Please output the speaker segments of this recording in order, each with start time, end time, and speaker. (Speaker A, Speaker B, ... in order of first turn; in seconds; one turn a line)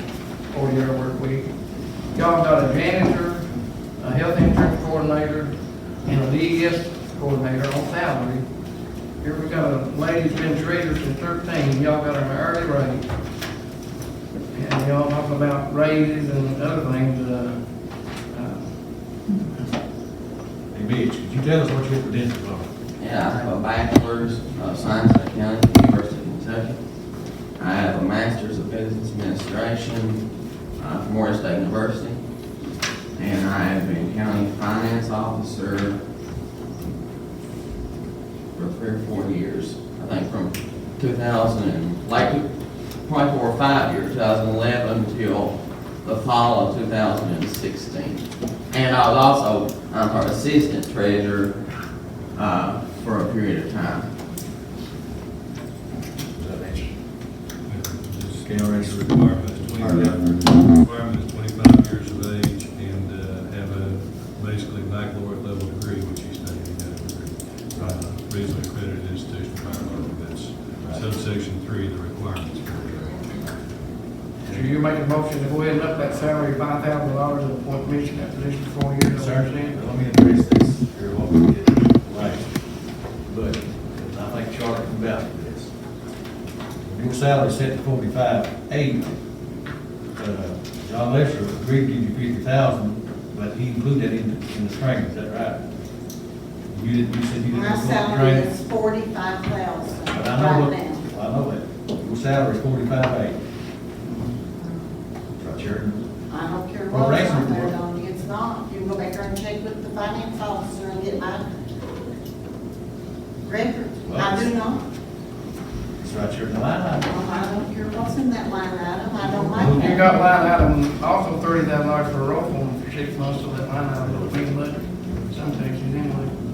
Speaker A: 0.5-1.5
Speaker A: 2.1-3.4
Speaker A: 4.0-8.4
Speaker A: 9.2-13.1
Speaker A: 14.5-17.6
Speaker A: 18.3-18.8
Speaker B: 20.7-22.7
Speaker C: 23.0-26.8
Speaker C: 27.6-30.2
Speaker C: 30.8-32.2
Speaker C: 33.2-36.0
Speaker C: 38.5-42.5
Speaker C: 43.0-51.5
Speaker C: 52.3-54.1
Speaker B: 56.3-56.9
Speaker D: 57.7-73.2
Speaker B: 58.4-60.2
Speaker B: 67.7-68.0
Speaker B: 70.8-71.1
Speaker A: 74.5-79.8
Speaker B: 79.1-82.4
Speaker B: 83.3-85.7
Speaker B: 86.8-89.1
Speaker B: 90.2-95.6
Speaker B: 96.7-98.5
Speaker E: 97.5-101.0
Speaker B: 100.1-103.3
Speaker E: 104.6-104.9
Speaker B: 105.4-106.0
Speaker E: 106.3-111.4
Speaker B: 106.9-107.8
Speaker E: 113.4-114.8
Speaker B: 114.0-114.5
Speaker B: 116.0-117.1
Speaker E: 117.0-120.1
Speaker B: 119.5-120.1
Speaker A: 119.6-126.4